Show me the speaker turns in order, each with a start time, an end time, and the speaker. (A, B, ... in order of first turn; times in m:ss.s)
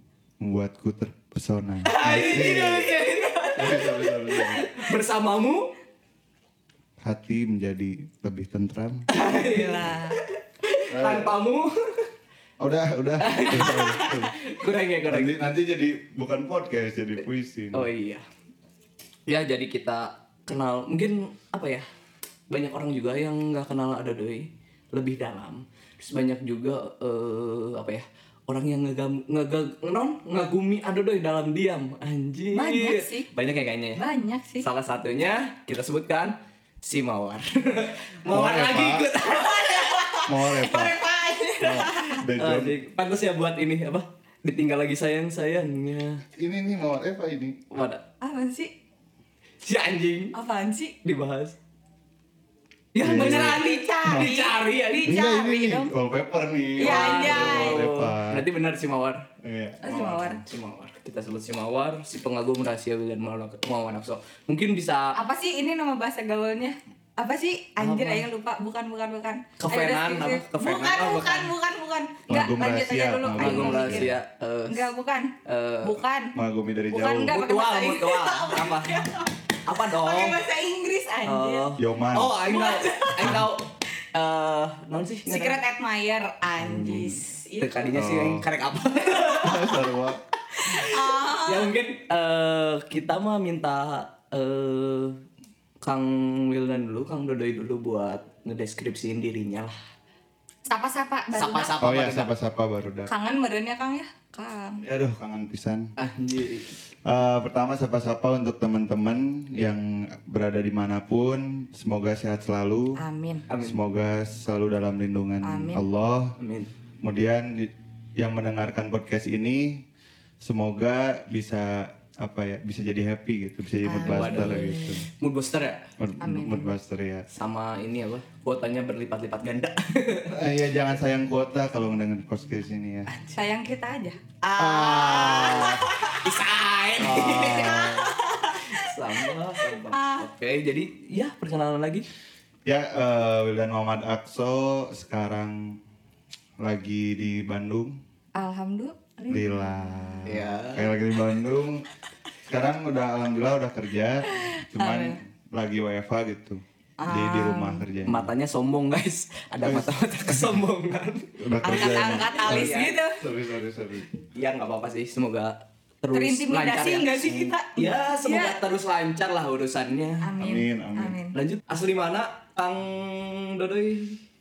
0:00.4-0:03.0 A
0:01.8-0:05.7 B
0:02.6-0:03.8 C
0:03.6-0:04.6 A
0:07.0-0:09.1 A
0:09.1-0:12.1 B
0:09.3-0:10.2 C
0:10.9-0:11.3 A
0:12.6-0:14.4 A
0:13.2-0:15.4 B
0:15.1-0:17.9 A
0:17.7-0:18.2 B
0:19.3-0:21.9 B
0:22.5-0:34.0 B
0:32.5-0:33.3 C
0:34.0-0:34.7 C
0:34.6-0:40.0 B
0:38.3-0:39.1 A
0:39.3-0:42.2 C
0:40.3-0:41.0 A
0:41.6-0:42.8 A
0:42.4-0:46.2 B
0:46.4-0:47.6 A
0:47.7-0:48.0 B
0:48.2-0:48.7 C
0:49.6-0:50.3 B
0:50.4-0:51.0 C
0:51.0-0:51.6 B
0:52.9-0:55.2 B
0:53.0-0:54.3 A
0:53.0-0:55.9 C
0:55.0-0:58.4 A
0:56.8-0:57.9 C
0:56.8-0:59.3 B
0:59.4-1:00.4 A
0:59.8-1:00.4 C
1:00.3-1:05.2 B
1:05.2-1:14.2 C
1:07.8-1:08.3 B
1:09.6-1:11.5 B
1:12.3-1:14.1 A
1:13.4-1:14.9 B
1:14.7-1:16.3 C
1:15.4-1:16.0 B
1:16.3-1:17.4 A
1:16.9-1:21.7 C
1:17.3-1:19.1 B
1:19.7-1:20.4 B
1:21.2-1:25.6 B
1:21.8-1:22.4 A
1:22.4-1:23.4 C
1:25.3-1:27.9 C
1:26.6-1:27.2 A
1:27.6-1:29.8 B
1:28.0-1:28.5 A
1:29.4-1:30.2 A
1:30.6-1:31.7 C
1:30.6-1:35.2 B
1:35.8-1:39.8 B
1:40.7-1:41.8 C
1:41.3-1:42.3 B
1:41.8-1:43.1 A
1:43.1-1:44.8 C
1:44.8-1:45.9 A
1:46.0-1:46.7 B
1:47.0-1:53.0 A
1:53.0-1:53.4 C
1:53.5-1:53.8 B
1:53.6-1:56.3 A
1:55.4-1:55.8 C
1:56.4-1:56.7 B
1:57.0-1:59.8 A
2:00.4-2:05.1 A
2:03.8-2:05.0 C
2:04.0-2:05.9 B
2:06.0-2:07.3 A
2:06.2-2:06.7 C
2:07.3-2:10.3 B
2:10.3-2:13.1 A
2:13.3-2:16.2 C
2:14.4-2:18.0 B
2:14.6-2:15.9 A
2:17.0-2:18.2 A
2:17.3-2:18.9 C
2:18.5-2:22.1 B
2:19.7-2:20.3 C
2:22.7-2:25.8 A
2:26.6-2:28.0 A
2:28.4-2:30.2 C
2:29.3-2:31.8 A
2:30.2-2:30.9 B
2:32.5-2:38.3 A
2:34.3-2:35.2 C
2:37.0-2:37.8 C
2:38.0-2:43.0 B
2:39.6-2:40.5 A
2:41.4-2:44.2 A
2:41.6-2:43.2 C
2:44.4-2:50.3 B
2:46.1-2:48.6 C
2:47.3-2:47.5 A
2:50.2-2:51.4 C
2:50.4-2:51.2 A
2:51.3-2:54.2 B